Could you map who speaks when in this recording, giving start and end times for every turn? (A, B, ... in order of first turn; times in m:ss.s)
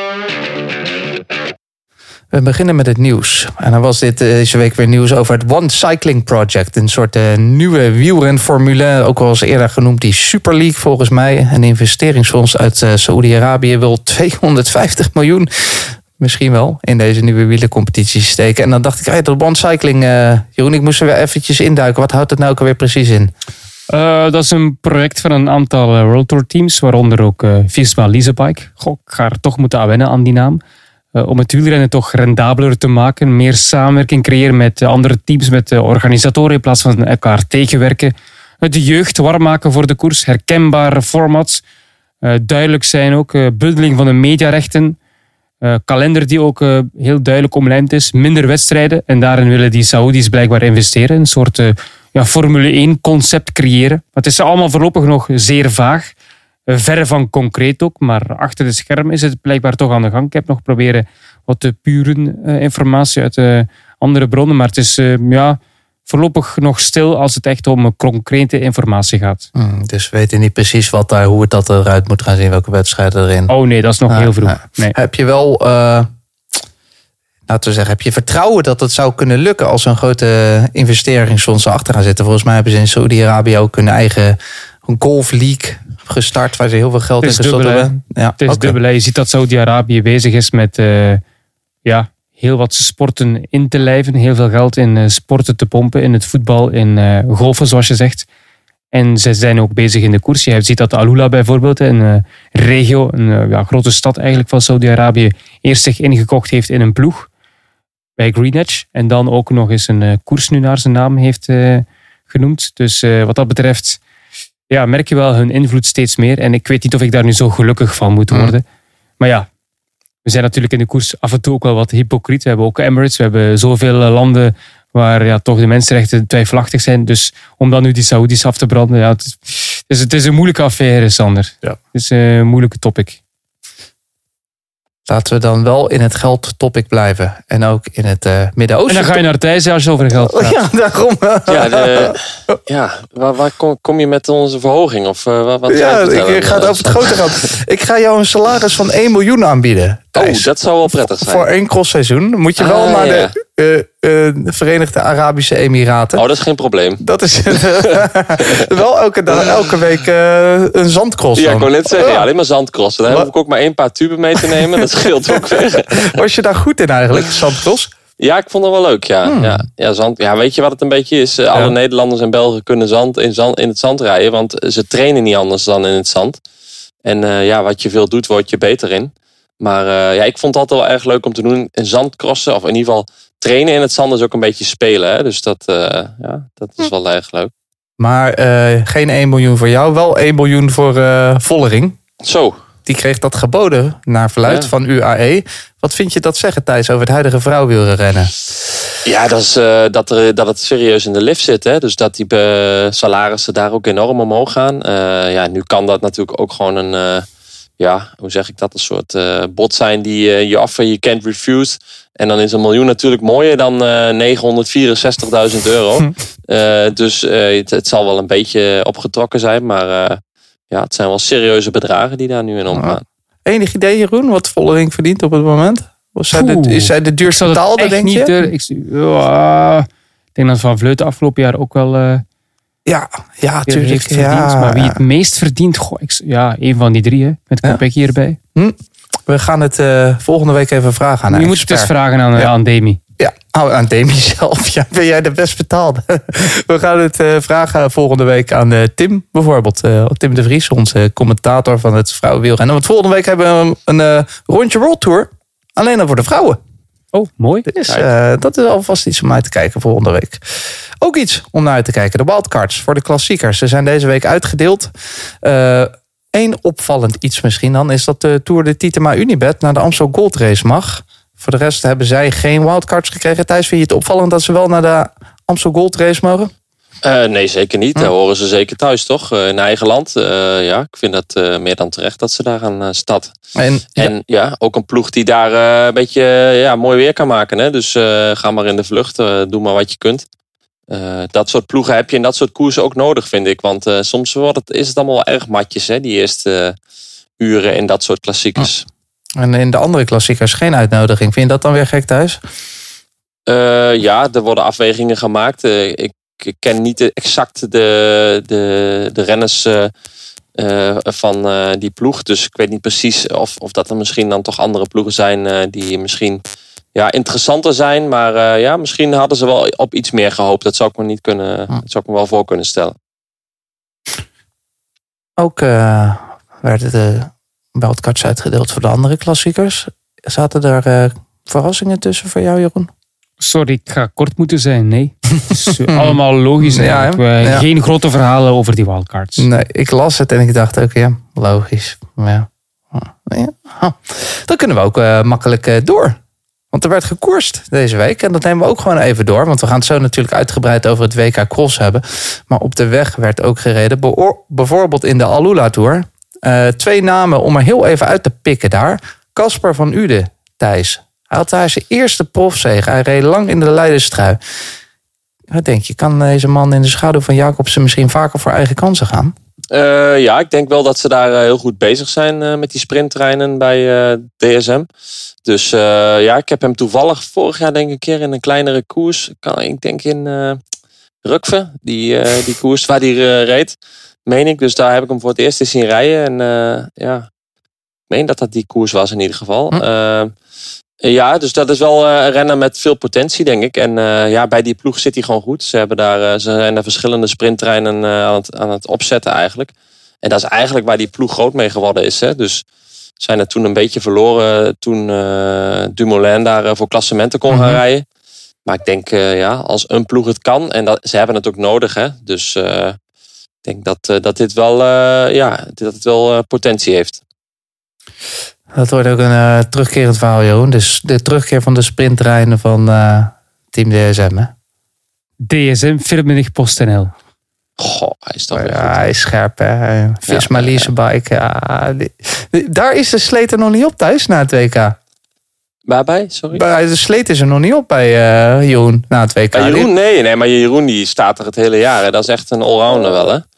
0:02.3-0:23.3 A
0:23.9-0:30.6 B
0:31.1-0:41.6 B
0:42.2-0:45.0 B
0:45.6-0:56.1 B
0:56.7-1:09.5 B
1:09.5-1:13.5 A
1:13.5-1:14.9 B
1:14.1-1:16.1 A
1:17.5-1:28.7 A
1:27.2-1:31.2 B
1:31.8-1:38.2 B
1:38.9-1:47.3 B
1:48.2-1:54.0 B
1:54.7-1:58.6 B
1:58.3-1:58.5 A
1:59.2-1:59.5 B
2:00.2-2:13.2 B
2:15.1-2:19.2 A
2:18.9-2:20.6 B
2:20.2-2:22.6 A
2:21.5-2:27.5 C
2:25.7-2:36.2 A
2:30.1-2:31.5 C
2:32.6-2:33.3 C
2:36.2-2:37.0 C
2:37.0-2:42.2 A
2:37.7-2:38.7 C
2:39.3-2:39.6 C
2:41.4-2:46.2 C
2:44.4-2:47.9 A
2:48.2-2:56.4 C
2:49.2-2:49.6 A
2:57.0-3:07.5 C
3:08.0-3:12.0 A
3:12.2-3:12.6 C
3:12.8-3:18.3 A
3:14.4-3:14.7 C
3:19.0-3:27.2 C
3:27.8-3:43.0 C
3:42.7-3:48.3 A
3:46.3-3:52.2 B
3:52.8-3:55.0 A
3:53.7-3:58.4 B
3:58.5-4:02.5 A
4:01.3-4:03.0 B
4:03.2-4:16.6 A
4:17.1-4:17.7 B
4:17.7-4:36.5 A
4:37.0-4:43.3 C
4:43.6-4:44.1 A
4:44.0-4:50.2 C
4:50.9-4:56.8 C
4:57.4-4:58.8 C
4:59.4-5:02.4 A
5:03.5-5:09.9 C
5:10.6-5:16.4 C
5:16.9-5:23.0 C
5:25.4-5:32.9 A
5:33.4-5:39.5 B
5:35.9-5:37.6 A
5:39.4-5:46.2 A
5:46.7-6:04.4 A
6:05.5-6:09.3 A
6:09.7-6:14.9 C
6:15.4-6:20.6 C
6:21.2-6:27.3 C
6:28.1-6:30.3 C
6:31.0-6:42.6 C
6:43.2-6:48.0 C
6:47.5-6:47.8 A
6:48.6-6:53.0 C
6:53.6-6:57.2 C
6:58.7-7:04.5 A
7:05.4-7:07.1 B
7:07.8-7:09.0 C
7:08.5-7:15.0 A
7:10.3-7:10.9 C
7:15.9-7:16.6 C
7:16.5-7:19.9 A
7:19.5-7:23.4 C